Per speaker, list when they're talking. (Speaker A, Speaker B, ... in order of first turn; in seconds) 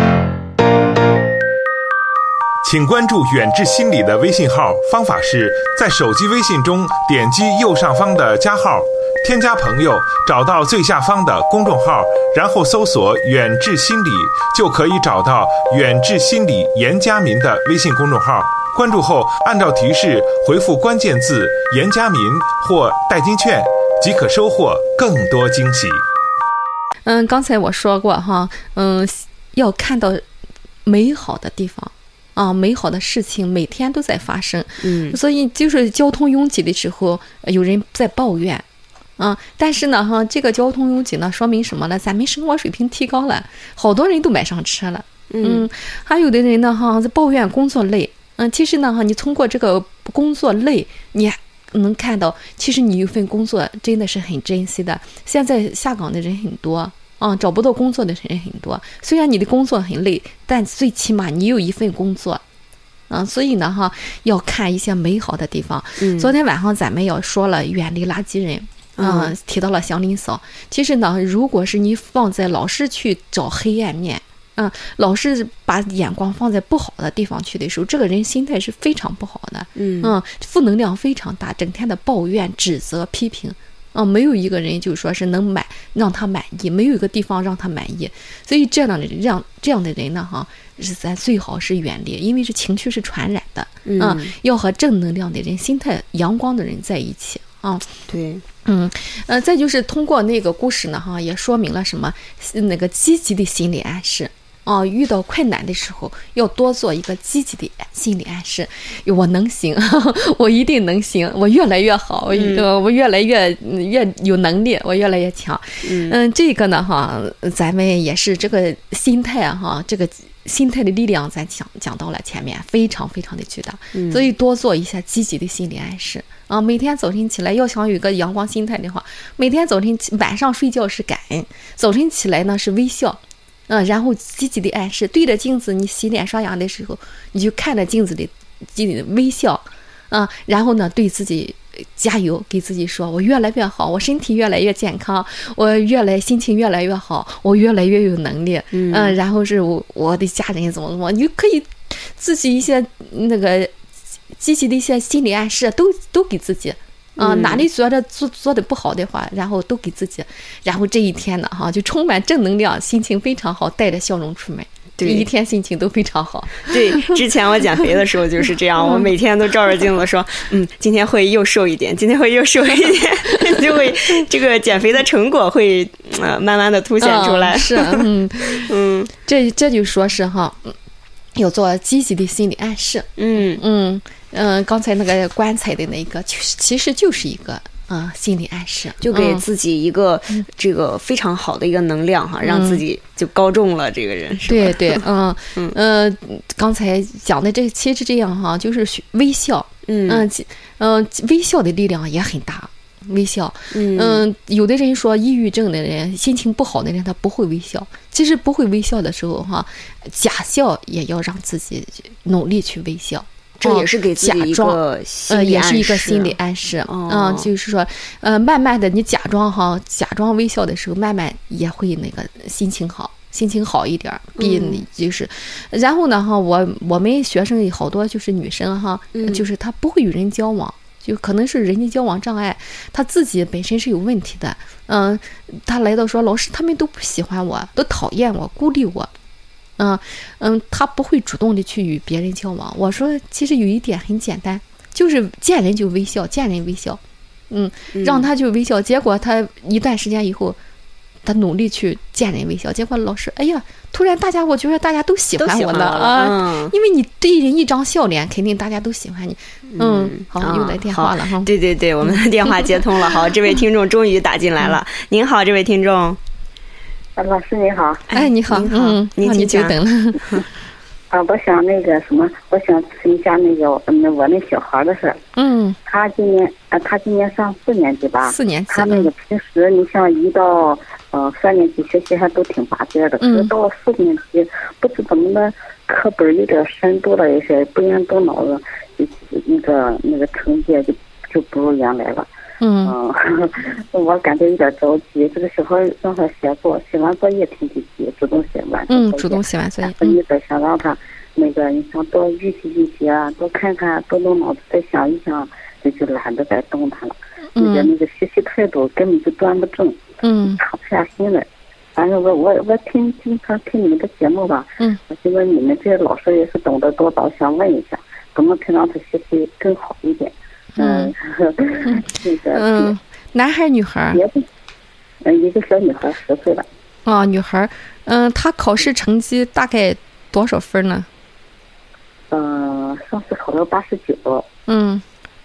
Speaker A: 2.6-26.0
Speaker B: 27.1-30.2, 30.9-38.6, 39.2-62.4, 63.1-97.8, 98.6-153.7, 154.3-167.2, 168.8-169.1, 177.0-180.8, 181.3-189.4, 192.4-192.8, 194.4-239.1, 239.8-250.6, 251.2-261.5, 262.0-262.8, 268.1-270.4, 275.4-275.8, 278.2-279.1, 283.2-283.5, 292.6-292.9, 298.9-300.2, 307.6-307.9, 310.2-310.6, 320.8-321.1, 322.5-324.2, 327.1-331.1, 334.7-335.0
Speaker C: 34.8-35.2, 45.3-45.7, 66.0-66.3, 69.0-69.3, 79.8-80.1, 93.8-94.3, 98.1-98.4, 112.3-112.7, 115.8-116.2, 123.9-124.3, 148.7-149.2, 157.2-157.6, 165.0-165.3, 166.6-179.1, 183.2-183.6, 189.0-195.0, 199.9-200.3, 203.7-204.2, 213.6-217.5, 224.4-224.8, 229.1-229.4, 247.9-248.3, 255.4-256.7, 259.7-266.2, 268.1-269.8
Speaker D: 267.1-268.0, 271.1-275.2, 275.8-292.3, 292.8-322.9, 324.1-324.4, 325.2-326.7, 332.3-334.5